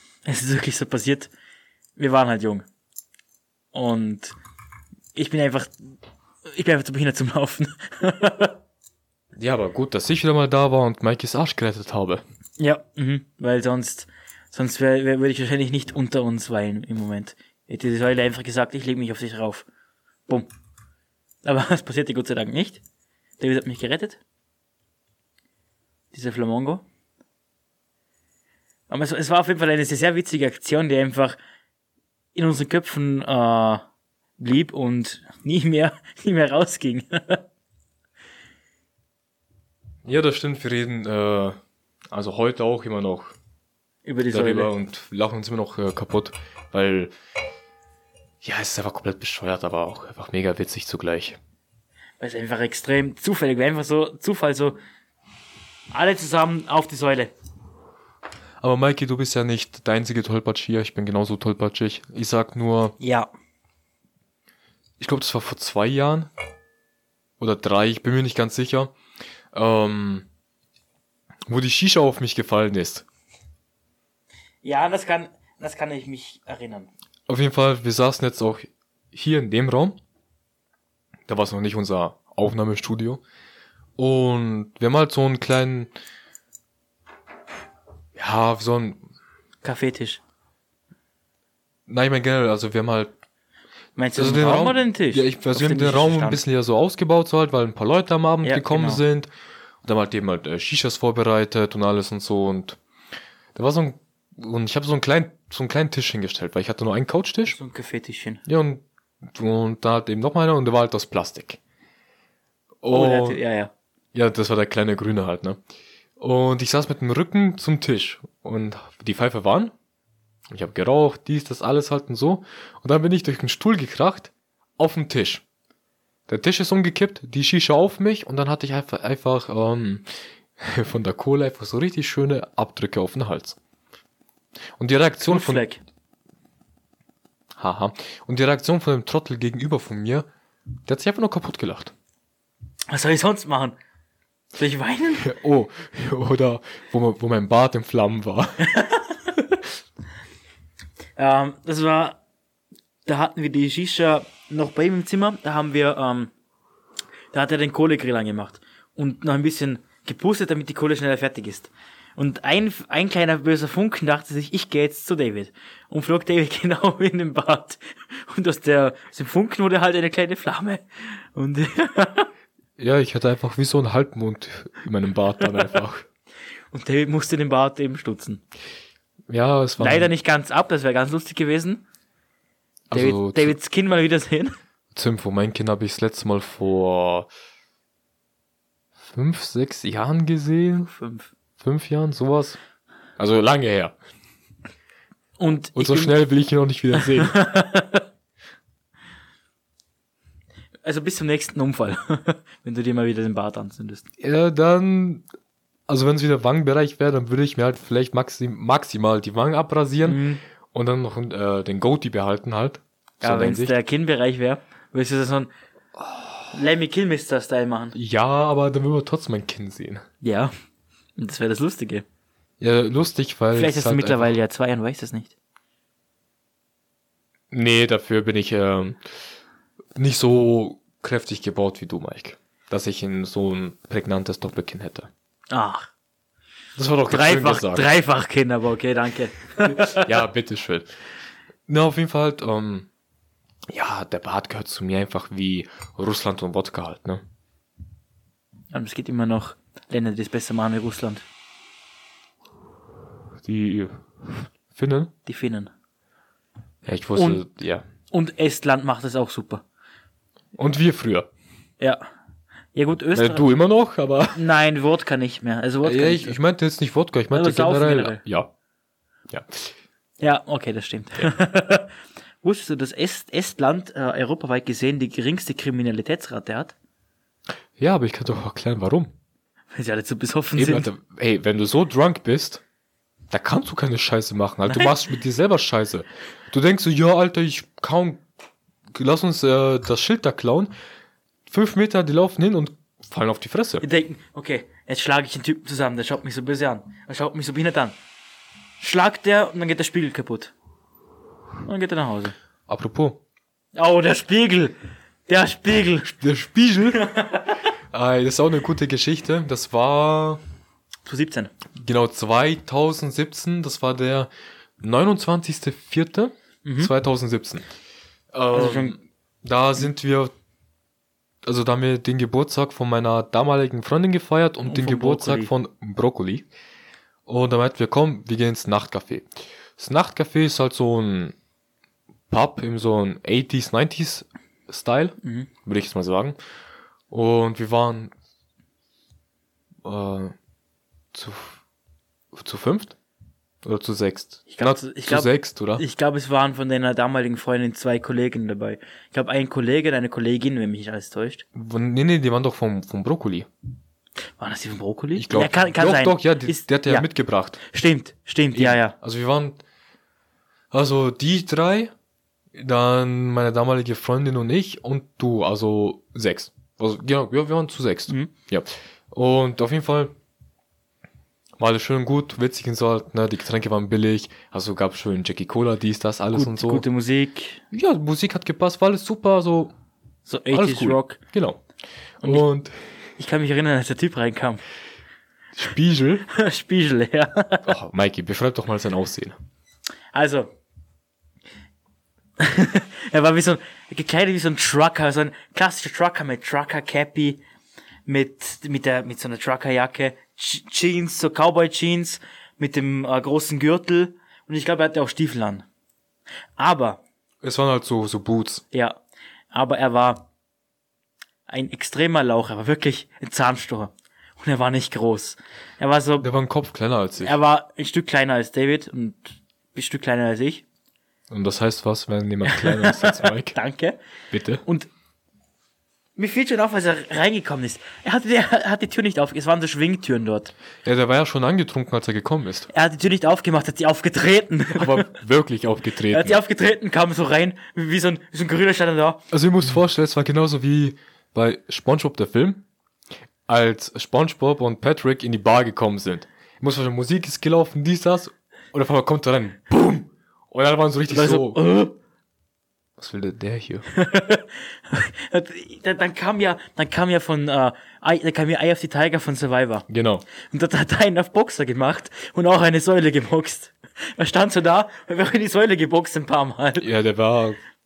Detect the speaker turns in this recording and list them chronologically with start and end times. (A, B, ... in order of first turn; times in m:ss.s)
0:00.2-0:01.3 A
0:02.0-0:02.6 A
0:03.7-0:04.3 A
0:05.1-0:05.9 A
0:06.5-0:08.6 A
0:09.4-0:12.2 B
0:12.6-0:19.6 A
0:21.4-0:22.8 A
0:23.4-0:24.2 A
0:26.1-0:26.8 A
0:28.9-0:31.4 A
0:32.3-0:33.8 A
0:34.4-0:37.4 A
0:40.0-0:41.6 B
0:42.1-0:43.3 B
0:44.0-0:44.7 A
0:44.3-0:47.1 B
0:48.4-0:51.4 B
0:52.2-0:54.8 A
0:55.9-0:57.3 A
0:58.6-1:03.0 B
1:03.0-1:03.3 A
1:05.0-1:06.3 B
1:07.4-1:08.9 B
1:09.5-1:10.3 B
1:11.5-1:13.0 B
1:14.6-1:16.9 A
1:17.3-1:20.0 B
1:21.3-1:23.2 B
1:24.0-1:25.9 B
1:28.1-1:29.0 B
1:29.6-1:30.2 A
1:31.9-1:33.1 B
1:34.0-1:36.4 A
1:34.2-1:39.3 B
1:38.4-1:39.0 A
1:39.8-1:42.8 B
1:43.5-1:47.6 B
1:47.4-1:48.4 A
1:48.4-1:51.6 B
1:52.8-1:53.4 B
1:52.9-1:53.7 A
1:54.1-1:55.6 B
1:56.2-1:59.7 B
2:00.5-2:05.4 B
2:06.3-2:13.6 B
2:14.8-2:15.6 B
2:15.2-2:15.8 A
2:17.6-2:20.3 B
2:20.8-2:21.9 B
2:22.9-2:23.7 A
2:24.5-2:25.3 A
2:25.2-2:28.7 B
2:28.6-2:29.2 A
2:31.2-2:32.2 A
2:33.0-2:36.3 A
2:37.3-2:52.3 A
2:52.8-2:56.1 B
2:56.7-2:58.4 A
2:59.3-3:00.1 B
2:59.8-3:01.8 A
3:02.9-3:03.5 B
3:02.9-3:04.6 A
3:04.9-3:07.3 B
3:09.0-3:10.9 B
3:10.9-3:11.3 A
3:11.6-3:12.6 B
3:13.2-3:14.0 B
3:15.4-3:16.2 A
3:15.8-3:17.4 B
3:16.9-3:18.0 A
3:20.8-3:24.0 A
3:24.2-3:25.2 B
3:25.9-3:33.7 B
3:30.0-3:30.4 A
3:33.2-3:35.5 A
3:36.0-3:36.5 B
3:36.5-3:38.0 A
3:37.9-3:40.0 B
3:40.2-3:40.5 A
3:41.2-3:42.0 A
3:42.6-3:44.3 B
3:43.5-3:45.3 A
3:47.5-3:49.0 B
3:50.0-3:55.1 B
3:55.5-3:55.9 A
3:56.8-3:57.9 B
3:57.1-4:00.1 A
3:59.6-4:00.9 B
4:01.7-4:02.9 B
4:03.7-4:07.2 B
4:08.7-4:11.2 A
4:13.4-4:15.1 B
4:15.2-4:15.7 A
4:16.8-4:17.8 B
4:17.1-4:17.4 A
4:18.1-4:19.6 A
4:20.6-4:21.3 B
4:22.7-4:23.5 A
4:23.1-4:24.4 B
4:24.3-4:26.4 A
4:25.8-4:28.5 B
4:27.3-4:28.2 A
4:29.3-4:29.7 B
4:30.2-4:36.7 A
4:37.8-4:39.1 B
4:39.7-4:40.9 A
4:40.6-4:42.6 B
4:43.3-4:48.2 B
4:44.6-4:45.0 A
4:48.9-4:50.7 B
4:51.5-4:53.8 B
4:53.8-4:58.0 A
4:58.8-5:00.5 A
5:01.6-5:02.3 A
5:02.7-5:03.2 B
5:03.7-5:04.7 A
5:05.3-5:06.2 A
5:06.2-5:07.1 B
5:06.9-5:07.6 A
5:07.9-5:10.4 B
5:11.0-5:11.5 A
5:11.7-5:17.7 B
5:16.6-5:16.9 A
5:18.3-5:20.3 B
5:18.5-5:19.0 A
5:21.4-5:26.5 B
5:24.6-5:25.5 A
5:27.2-5:31.3 B
5:32.3-5:36.4 B
5:35.2-5:35.5 A
5:37.1-5:38.1 B
5:39.8-5:40.3 B
5:41.1-5:41.6 B
5:42.3-5:43.0 B
5:43.6-5:45.8 B
5:44.5-5:51.4 A
5:51.5-5:53.5 B
5:54.4-5:57.1 A
5:55.1-5:57.6 B
5:57.6-5:58.9 A
5:58.5-5:59.6 B
6:00.7-6:01.9 B
6:02.5-6:10.1 B
6:11.6-6:16.8 B
6:16.3-6:17.6 A
6:17.7-6:19.7 B
6:20.3-6:21.2 A
6:20.5-6:21.6 B
6:22.2-6:22.8 B
6:23.2-6:24.6 A
6:25.6-6:26.2 B
6:26.3-6:27.7 A
6:27.6-6:29.4 B
6:30.1-6:30.5 A
6:32.4-6:37.4 A
6:38.0-6:45.6 A
6:46.6-6:47.0 A
6:47.4-6:48.6 B
6:48.7-6:49.0 A
6:49.5-6:50.3 A
6:51.5-6:56.3 A
6:56.2-6:57.4 B
6:57.2-7:00.6 A
7:01.3-7:03.6 B
7:02.4-7:04.0 A
7:04.3-7:04.6 B
7:06.2-7:10.5 A
7:10.8-7:12.7 B
7:12.7-7:15.1 A
7:14.7-7:16.4 B
7:16.1-7:19.2 A
7:19.3-7:22.6 B
7:23.5-7:31.6 B
7:31.1-7:32.0 A
7:33.0-7:33.8 B
7:33.9-7:39.9 A
7:39.9-7:40.2 B
7:40.4-7:46.9 A
7:46.8-7:47.6 B